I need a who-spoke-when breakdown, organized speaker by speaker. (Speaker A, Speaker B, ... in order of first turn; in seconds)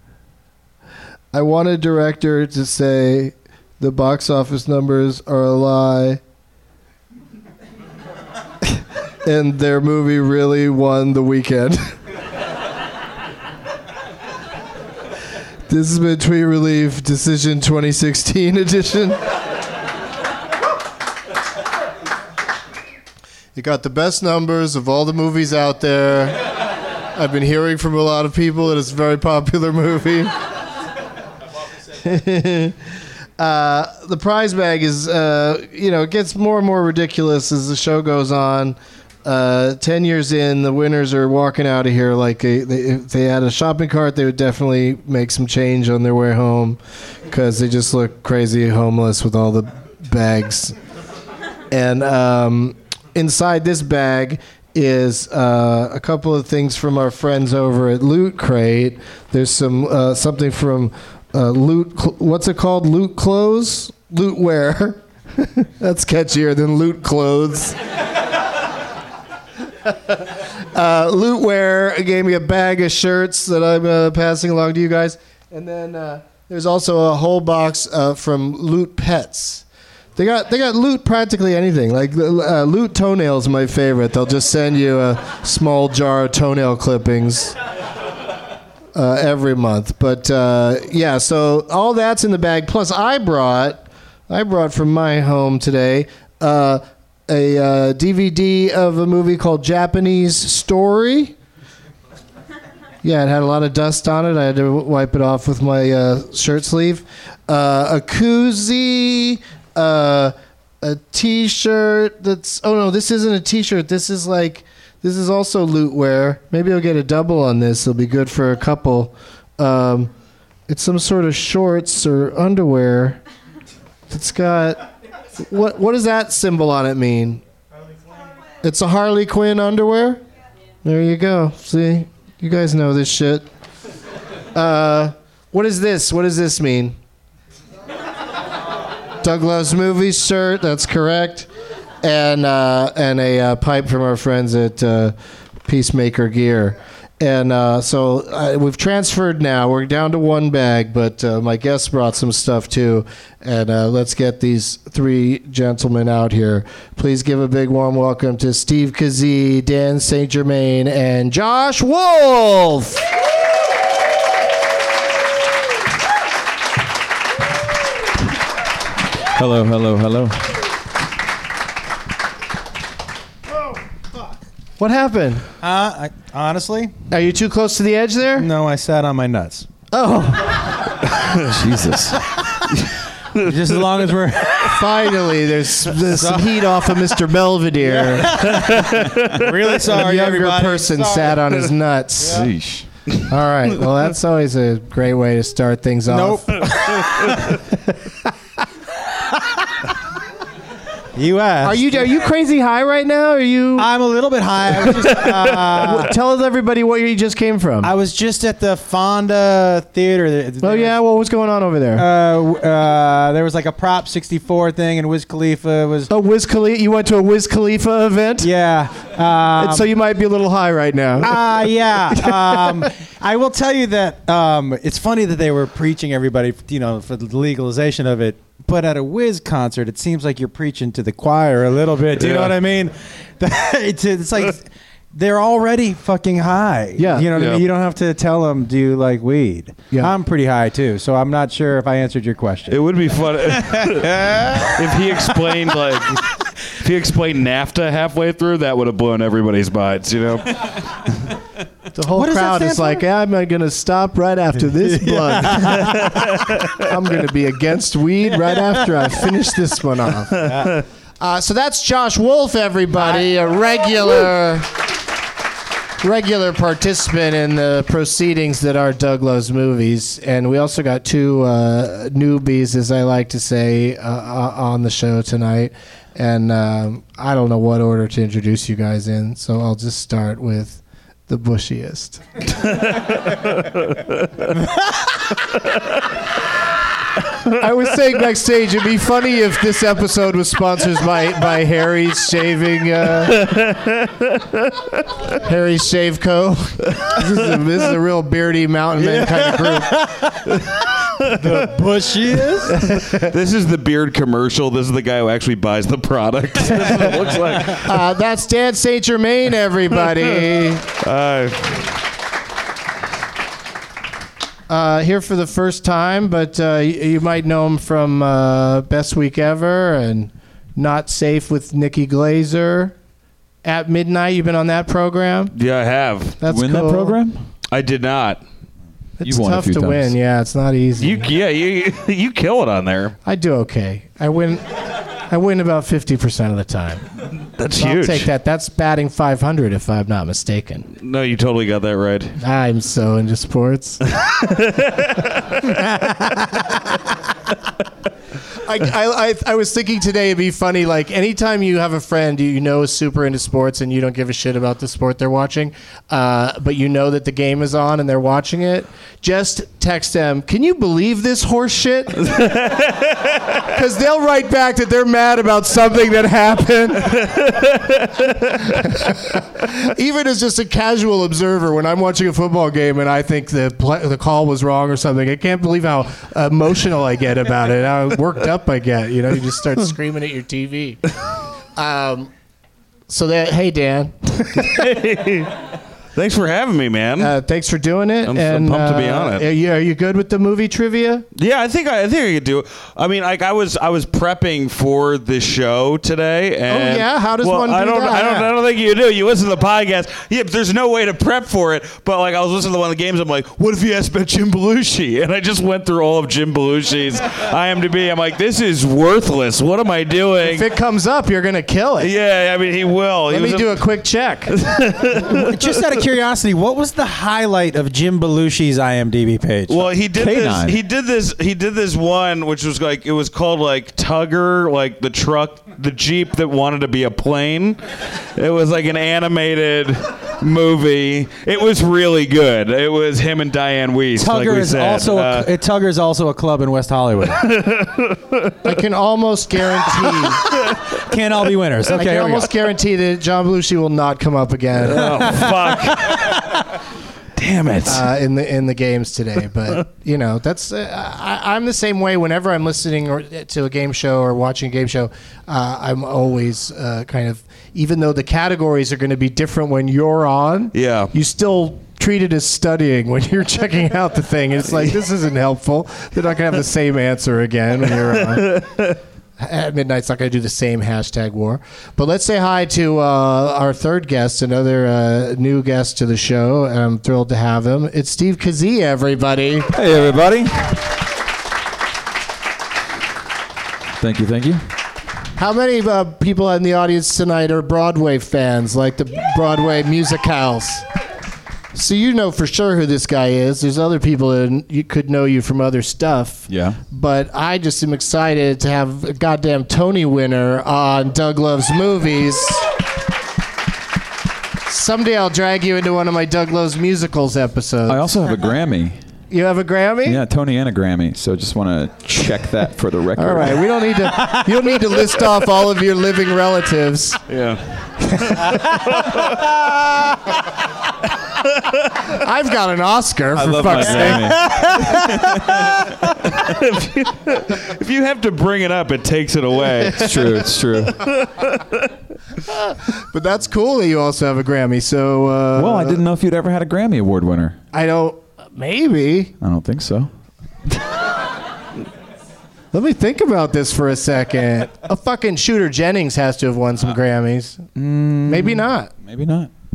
Speaker A: 1.3-6.2, 9.2-11.9, 15.7-19.2, 23.5-26.4, 27.1-30.3, 32.0-32.8, 33.4-46.8, 47.3-50.8, 51.7-67.8, 70.7-79.6, 80.2-87.5, 88.9-101.3, 103.0-120.1, 120.7-123.2, 124.1-124.8, 125.4-127.4, 128.6-130.2, 130.8-133.4, 134.5-136.9, 139.2-141.5, 142.0-145.1, 145.7-163.0, 174.8-175.4, 177.1-178.5, 179.9-180.9, 184.6-188.4, 189.9-192.5, 193.3-198.3, 201.6-203.9, 205.0-207.9, 210.6-212.0, 216.1-218.5, 219.6-221.6, 222.2-222.6, 237.0-237.3, 251.9-256.2, 256.8-260.5, 261.2-264.7, 266.0-282.2, 287.5-293.4, 295.4-300.0, 302.8-303.3, 307.8-310.9, 314.7-322.9, 323.6-325.5, 326.4-327.2, 329.2-331.3, 333.2-334.6, 335.3-337.0, 337.7-340.9, 342.4-344.0, 345.7-346.7, 348.6-362.5, 363.6-367.4, 368.6-381.0, 381.8-382.3, 383.1-384.8, 387.2-391.2, 396.7-398.5, 410.4-412.1, 413.3-414.6, 438.6-440.5, 441.9-445.3, 447.8-468.6, 469.4-479.7, 485.4-490.8, 491.7-502.6, 504.7-508.1, 509.3-510.2, 513.2-517.2, 518.2-518.5, 522.1-524.5, 533.0-536.0, 537.7-539.3, 542.7-547.6, 548.2-548.9
Speaker B: 169.3-170.5, 181.4-182.2, 192.2-192.9, 326.5-327.4, 329.2-330.1, 420.1-420.8, 479.7-480.7, 484.0-484.6, 496.5-496.8, 507.9-509.0, 510.0-513.7, 523.3-525.9, 529.9-531.0, 535.5-537.6, 539.4-540.1, 547.7-549.5
Speaker C: 175.6-176.9, 178.4-179.7, 183.4-185.3, 185.9-187.1, 187.9-191.6, 196.1-197.5, 201.1-201.8, 203.8-206.1, 207.8-210.9, 211.9-216.1, 218.4-219.9, 221.2-242.8, 243.4-245.2, 252.1-253.0, 254.8-256.5, 258.3-259.2, 260.4-260.8, 299.0-302.8, 306.7-307.4, 415.2-419.9, 434.1-437.5, 440.9-442.5, 445.0-446.1, 524.0-525.4
Speaker D: 183.3-183.6, 188.5-189.6, 232.2-232.6, 237.3-237.7, 242.7-251.3, 255.9-256.7, 282.6-284.4, 293.3-294.7, 302.8-307.9, 311.0-312.0, 325.5-326.4, 327.7-328.4, 331.0-333.1, 337.5-338.3, 341.0-342.4, 344.2-345.6, 362.2-363.3, 367.2-368.6, 384.5-385.5, 386.1-387.3, 388.2-389.4, 391.3-410.7, 412.0-413.8, 414.5-415.9, 419.7-435.5, 437.4-438.6, 440.1-440.8, 444.8-446.6, 447.4-448.1, 460.7-461.1, 468.4-468.9, 517.3-519.5, 526.2-530.2, 530.9-531.9